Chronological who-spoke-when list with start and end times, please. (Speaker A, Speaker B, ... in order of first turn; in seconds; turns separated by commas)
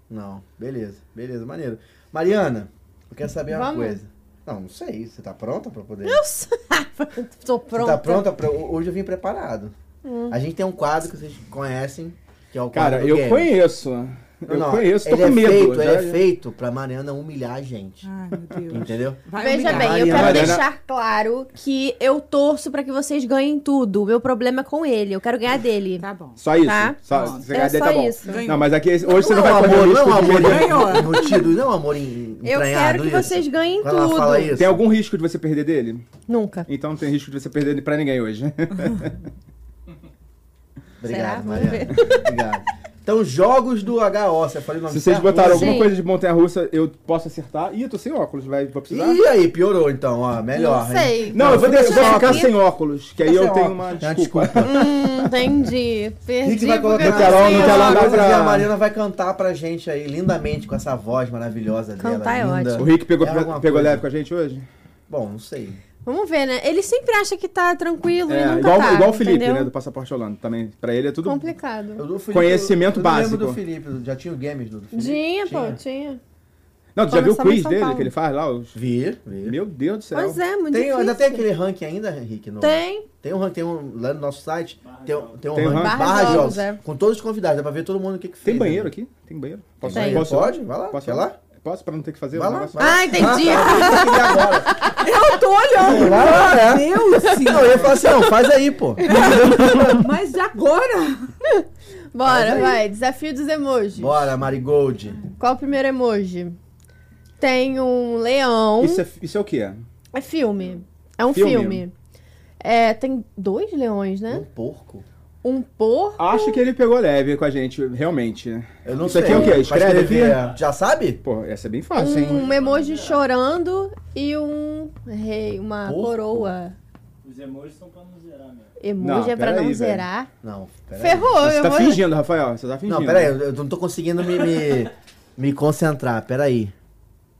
Speaker A: 0.1-6.2, Speaker B: 3.5-4.0, Speaker B: 6.0-8.2, Speaker A: 7.7-9.7, Speaker B: 10.0-10.4, Speaker A: 10.3-13.5, Speaker C: 12.7-16.2, Speaker A: 14.4-18.1, Speaker D: 18.0-20.4, Speaker A: 18.7-20.6, Speaker B: 19.4-26.0, Speaker C: 20.0-20.6, Speaker D: 26.0-26.4, Speaker C: 26.4-31.0, Speaker B: 26.6-28.4, Speaker D: 27.1-27.6, Speaker D: 28.2-28.8, Speaker B: 29.1-29.8, Speaker A: 29.1-34.8, Speaker D: 30.3-31.4, Speaker B: 32.4-34.6, Speaker C: 34.5-36.0, Speaker B: 36.3-36.7, Speaker C: 36.7-39.1, Speaker A: 41.0-45.9, Speaker B: 41.0-42.3, Speaker C: 44.9-49.2, Speaker B: 45.4-46.0, Speaker A: 48.9-52.5, Speaker B: 50.5-52.5, Speaker C: 51.3-54.9, Speaker A: 53.2-54.9, Speaker B: 54.6-58.2, Speaker A: 56.4-64.0, Speaker C: 57.0-58.7, Speaker B: 62.0-62.9, Speaker C: 62.8-64.7, Speaker A: 65.1-65.8, Speaker B: 66.0-69.7, Speaker C: 68.3-71.5, Speaker B: 71.2-72.0, Speaker A: 72.0-75.8, Speaker C: 72.3-73.6, Speaker B: 74.9-76.2, Speaker C: 76.9-78.7, Speaker B: 77.1-78.1, Speaker A: 78.7-79.6, Speaker C: 79.4-80.4, Speaker B: 80.1-81.4, Speaker A: 80.7-88.9, Speaker B: 82.6-83.0, Speaker E: 84.8-85.7, Speaker C: 85.5-86.5, Speaker B: 85.8-86.8, Speaker C: 88.4-93.1, Speaker A: 89.8-91.3, Speaker B: 89.9-90.2, Speaker A: 92.3-94.9, Speaker B: 92.8-95.1, Speaker D: 93.4-94.0, Speaker D: 95.0-98.0, Speaker A: 95.8-100.0, Speaker D: 99.0-101.3, Speaker B: 99.1-99.8, Speaker B: 101.5-104.3, Speaker A: 102.2-102.8, Speaker A: 104.0-105.2, Speaker B: 105.4-106.6, Speaker B: 107.4-109.0, Speaker C: 108.8-109.8, Speaker B: 110.1-111.9, Speaker C: 111.3-111.8, Speaker B: 112.6-114.4, Speaker A: 114.3-115.0, Speaker B: 115.4-116.6, Speaker C: 116.2-120.4, Speaker A: 118.8-121.2, Speaker C: 121.2-122.5, Speaker B: 122.0-126.8, Speaker E: 122.3-123.3, Speaker A: 125.8-126.5, Speaker E: 127.2-128.8, Speaker B: 128.8-130.3, Speaker C: 129.0-130.1, Speaker A: 130.4-131.3, Speaker B: 131.0-132.0, Speaker C: 131.4-133.4, Speaker A: 132.8-136.7